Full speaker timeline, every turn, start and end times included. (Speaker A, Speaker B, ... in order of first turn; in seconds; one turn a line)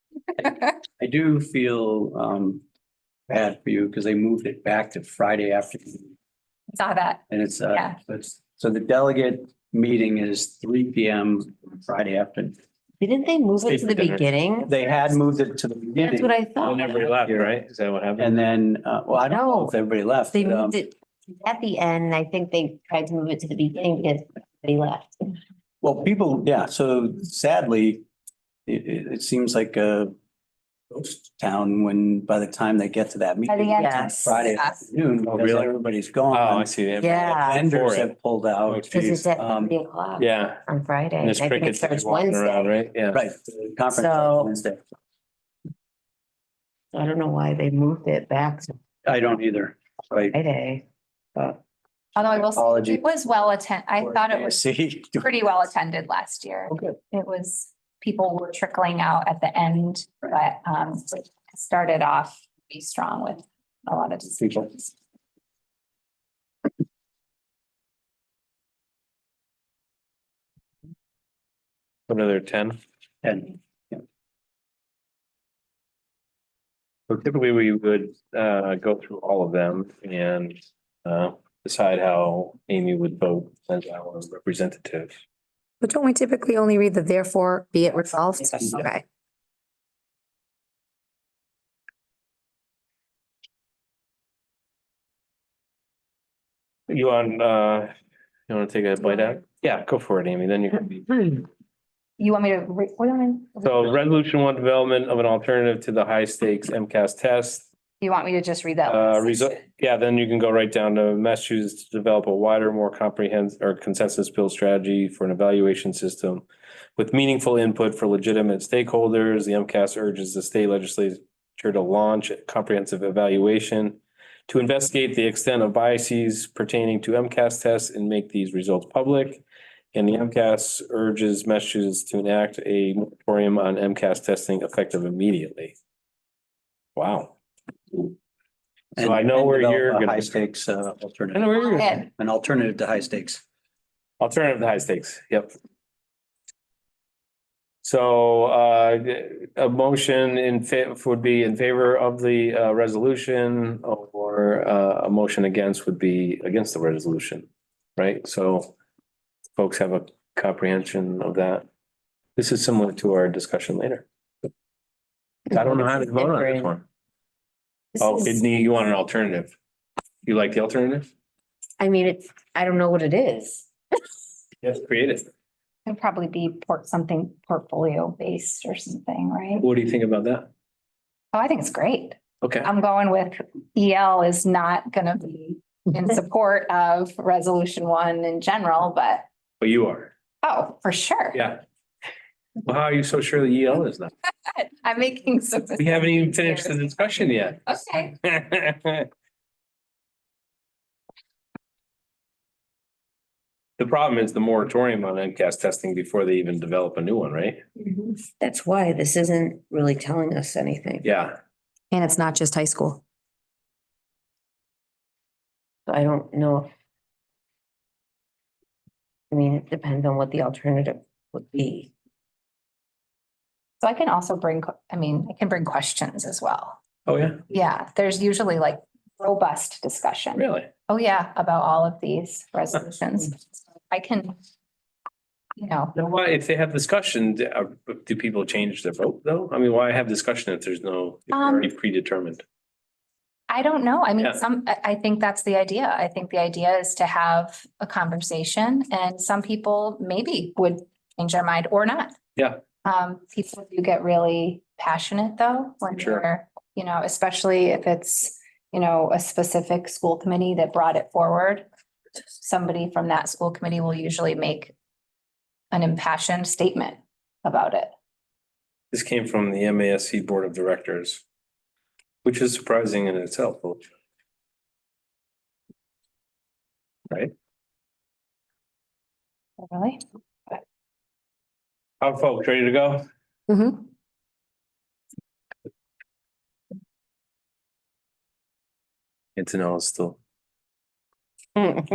Speaker A: 0.4-0.7
Speaker B: 1.0-2.6
Speaker B: 3.3-6.1
Speaker A: 6.7-8.0
Speaker B: 7.3-12.6
Speaker C: 13.0-14.7
Speaker D: 13.6-14.3
Speaker B: 14.7-17.6
Speaker C: 16.0-17.1
Speaker D: 16.6-18.4
Speaker B: 18.2-20.8
Speaker C: 19.2-19.7
Speaker C: 20.3-25.3
Speaker B: 25.8-28.1
Speaker B: 28.7-30.1
Speaker B: 31.0-36.7
Speaker A: 33.5-34.9
Speaker C: 33.8-34.3
Speaker D: 35.3-35.7
Speaker D: 36.3-38.1
Speaker C: 37.0-37.7
Speaker B: 37.3-39.7
Speaker D: 38.7-39.2
Speaker C: 38.9-42.7
Speaker D: 40.2-40.6
Speaker D: 41.2-43.2
Speaker B: 43.1-44.8
Speaker C: 43.9-44.5
Speaker C: 46.9-48.8
Speaker B: 49.0-50.4
Speaker C: 50.3-50.8
Speaker A: 52.2-54.6
Speaker B: 52.2-53.0
Speaker B: 54.0-55.3
Speaker A: 55.2-64.9
Speaker D: 72.1-72.8
Speaker B: 73.2-74.0
Speaker D: 77.1-85.2
Speaker E: 85.8-89.0
Speaker D: 96.9-97.9
Speaker D: 98.5-101.5
Speaker A: 102.2-104.0
Speaker D: 103.6-107.7
Speaker A: 108.0-109.6
Speaker D: 108.9-116.5
Speaker D: 117.0-129.4
Speaker D: 129.9-135.7
Speaker D: 137.0-137.3
Speaker B: 139.0-143.4
Speaker D: 139.0-140.4
Speaker D: 141.3-142.0
Speaker A: 141.6-142.1
Speaker D: 144.2-145.5
Speaker D: 147.8-158.7
Speaker D: 159.6-161.7
Speaker D: 162.4-164.1
Speaker C: 165.5-166.7
Speaker D: 165.5-166.8
Speaker C: 168.0-168.4
Speaker D: 168.0-169.6
Speaker D: 170.2-171.1
Speaker C: 171.8-173.7
Speaker D: 174.6-175.3
Speaker A: 175.9-179.7
Speaker D: 179.6-180.5
Speaker A: 181.3-189.3
Speaker D: 182.4-182.7
Speaker D: 189.6-190.1
Speaker A: 190.4-191.4
Speaker D: 191.3-191.6
Speaker D: 192.6-194.1
Speaker A: 194.5-197.0
Speaker D: 195.8-199.1
Speaker A: 197.7-198.1
Speaker D: 203.8-207.6
Speaker C: 207.8-211.1
Speaker D: 211.0-211.3
Speaker E: 211.9-213.0
Speaker C: 215.9-216.7
Speaker C: 219.3-221.9
Speaker A: 223.8-226.8
Speaker D: 227.1-227.4
Speaker A: 227.5-234.4
Speaker D: 230.4-230.7
Speaker A: 235.6-235.9
Speaker D: 235.9-242.4
Speaker A: 241.3-241.7
Speaker A: 243.5-252.2
Speaker A: 252.8-261.6
Speaker D: 256.0-256.2
Speaker A: 262.4-264.7
Speaker A: 265.7-267.9
Speaker D: 268.9-271.2
Speaker D: 272.2-273.9
Speaker A: 279.6-280.6
Speaker D: 282.0-283.1
Speaker A: 283.5-283.8
Speaker D: 289.4-290.2